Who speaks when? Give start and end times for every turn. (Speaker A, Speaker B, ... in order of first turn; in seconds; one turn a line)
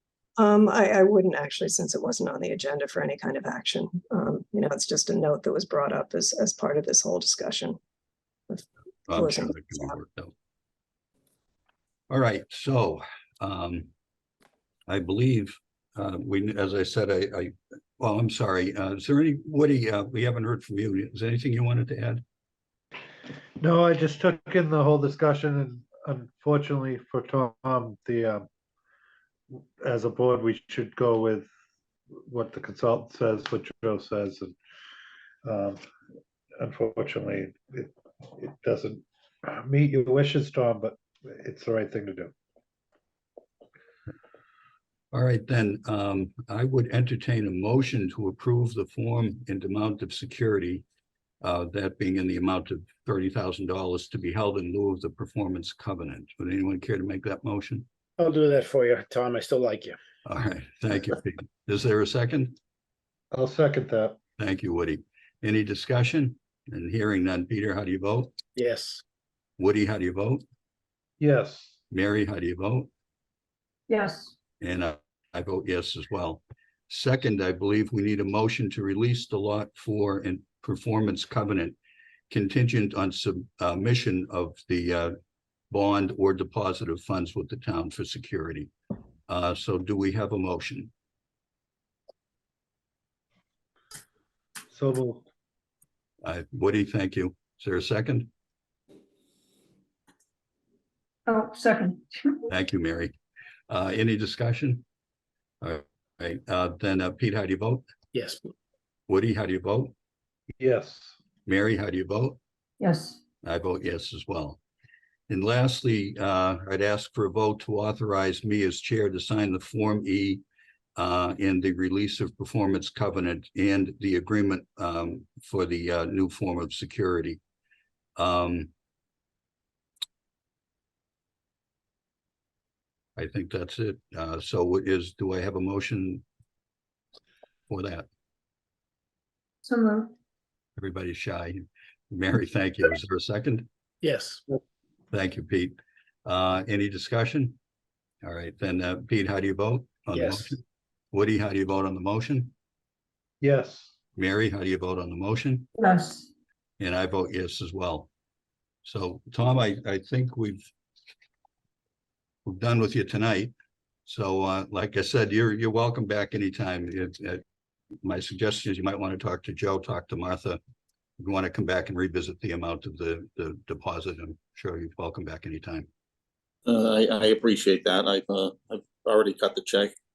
Speaker A: 0.4-7.8
Speaker A: 8.5-9.9
Speaker B: 9.1-10.3
Speaker B: 12.1-13.9
Speaker B: 14.9-22.2
Speaker C: 23.6-28.5
Speaker C: 29.5-31.5
Speaker C: 32.3-34.6
Speaker C: 35.4-35.8
Speaker C: 36.6-42.3
Speaker B: 45.1-50.8
Speaker B: 51.4-57.9
Speaker D: 58.2-60.0
Speaker B: 60.3-62.6
Speaker C: 63.3-64.2
Speaker B: 64.4-68.3
Speaker D: 68.6-69.0
Speaker B: 69.6-70.4
Speaker C: 71.2-71.8
Speaker B: 71.9-72.9
Speaker E: 73.9-74.3
Speaker B: 74.6-81.8
Speaker B: 82.3-85.2
Speaker B: 85.7-88.7
Speaker B: 89.3-90.9
Speaker C: 94.7-95.2
Speaker B: 96.2-98.3
Speaker E: 101.3-102.5
Speaker B: 102.5-103.2
Speaker B: 103.7-104.8
Speaker B: 105.6-107.8
Speaker D: 108.1-108.5
Speaker B: 109.1-109.9
Speaker C: 110.6-111.2
Speaker B: 111.5-112.4
Speaker E: 112.8-113.2
Speaker B: 113.4-114.6
Speaker B: 115.3-120.4
Speaker B: 121.0-127.4
Speaker B: 128.2-128.7
Speaker B: 133.2-136.2
Speaker B: 137.7-138.1
Speaker E: 139.7-140.1
Speaker B: 140.8-143.7
Speaker D: 144.0-144.4
Speaker B: 145.1-147.6
Speaker B: 148.2-150.6
Speaker D: 150.1-150.5
Speaker B: 151.1-152.5
Speaker C: 153.4-153.9
Speaker B: 154.2-155.7
Speaker E: 155.8-156.3
Speaker B: 156.8-158.1
Speaker B: 158.8-160.7
Speaker B: 162.5-163.5
Speaker B: 164.1-167.4
Speaker B: 168.0-170.6
Speaker B: 171.2-175.9
Speaker F: 176.7-179.9